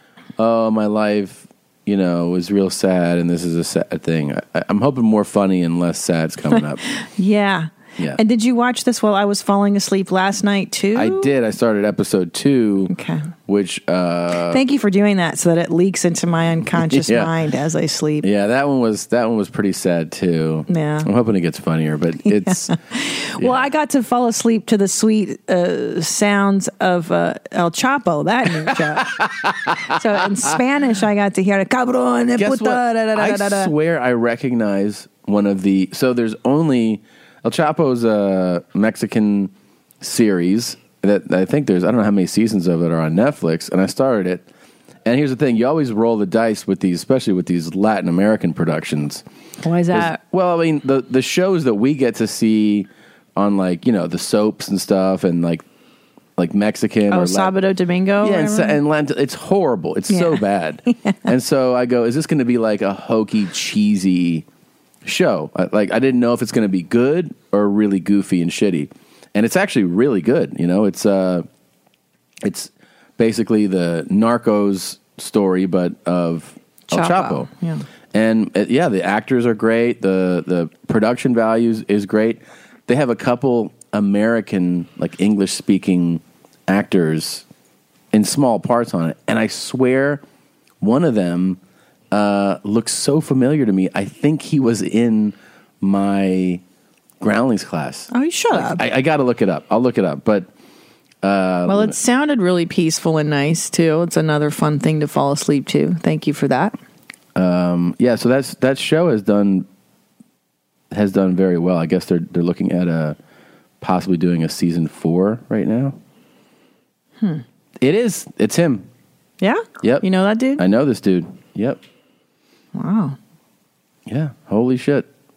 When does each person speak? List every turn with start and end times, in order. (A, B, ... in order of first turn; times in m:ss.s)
0:00.4-0:06.8 A
0:06.6-0:11.3 B
0:11.0-0:12.9 A
0:12.9-0:13.3 B
0:13.5-0:14.6 A
0:14.5-0:18.3 B
0:16.8-0:17.3 A
0:18.2-0:22.7 A
0:20.7-0:21.1 B
0:22.3-0:29.1 B
0:28.7-0:30.5 A
0:29.9-0:33.7 B
0:32.4-0:44.4 A
0:45.0-0:49.2 A
0:49.6-0:50.2 B
0:49.9-0:55.6 A
0:56.4-0:57.5 A
0:57.1-0:58.8 B
0:58.2-1:04.4 A
1:00.1-1:01.2 B
1:05.0-1:11.5 A
1:12.4-1:17.5 A
1:16.9-1:17.8 B
1:18.1-1:27.4 A
1:28.1-1:30.2 A
1:30.8-1:31.6 A
1:32.1-1:36.6 A
1:37.2-1:40.5 A
1:38.1-1:38.8 B
1:41.2-1:42.0 A
1:41.7-1:46.8 B
1:47.4-1:49.7 A
1:50.9-1:53.2 A
1:53.8-1:56.0 A
1:57.8-1:58.9 A
1:59.4-2:00.6 B
1:59.8-2:00.1 A
2:00.6-2:01.8 A
2:02.8-2:03.2 B
2:04.1-2:05.1 A